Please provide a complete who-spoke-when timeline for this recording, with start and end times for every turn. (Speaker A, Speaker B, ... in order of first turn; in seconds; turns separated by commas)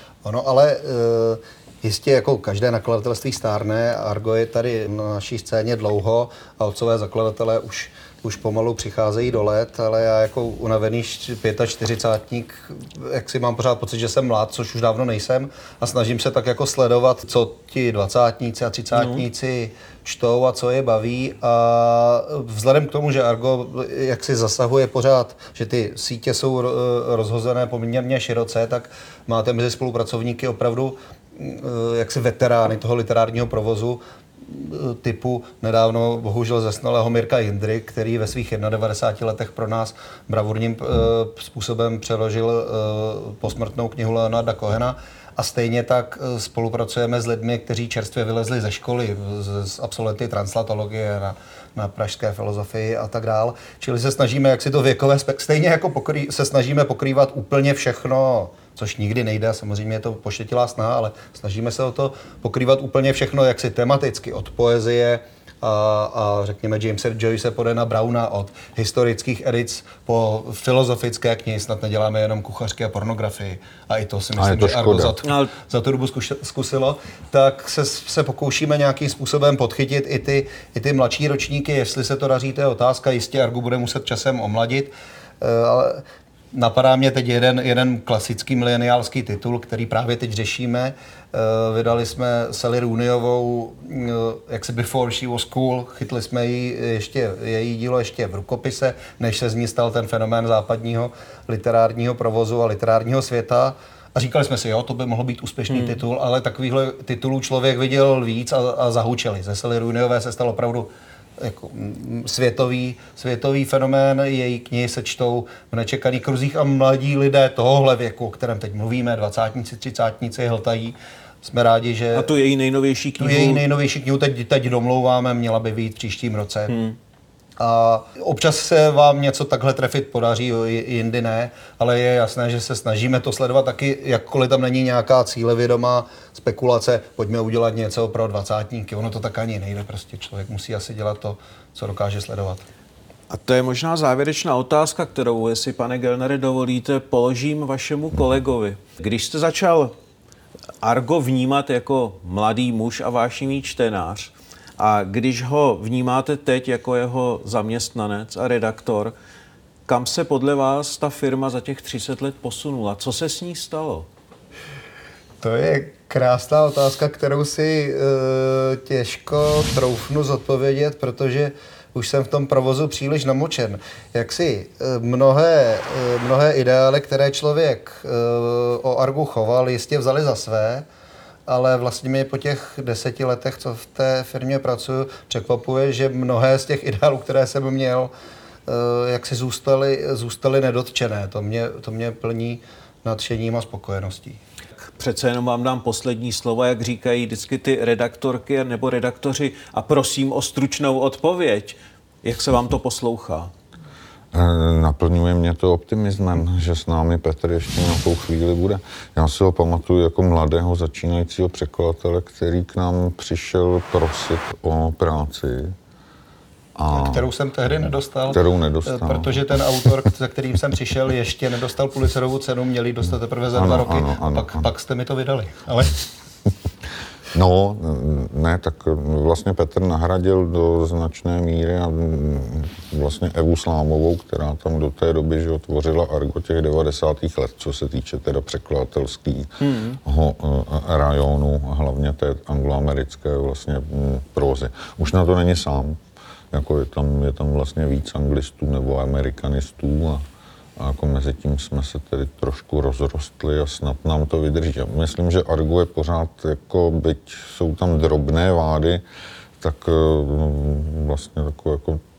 Speaker A: 0.2-122.3, Speaker B: 19.0-19.2, Speaker C: 74.4-75.2, Speaker B: 75.2-75.5, Speaker B: 105.7-106.0, Speaker B: 122.2-123.6, Speaker A: 123.2-126.8, Speaker B: 126.7-127.0, Speaker A: 127.6-142.7, Speaker B: 143.3-149.9, Speaker B: 150.8-159.1, Speaker B: 159.9-164.1, Speaker A: 165.4-180.8, Speaker A: 181.5-188.1, Speaker A: 188.7-194.4, Speaker B: 194.9-203.5, Speaker C: 204.3-215.8, Speaker C: 216.8-217.3, Speaker A: 216.9-226.1, Speaker C: 218.3-219.9, Speaker C: 223.6-224.7, Speaker C: 227.3-246.0, Speaker B: 239.6-240.0, Speaker C: 246.5-250.2, Speaker C: 250.8-259.0, Speaker C: 259.6-262.0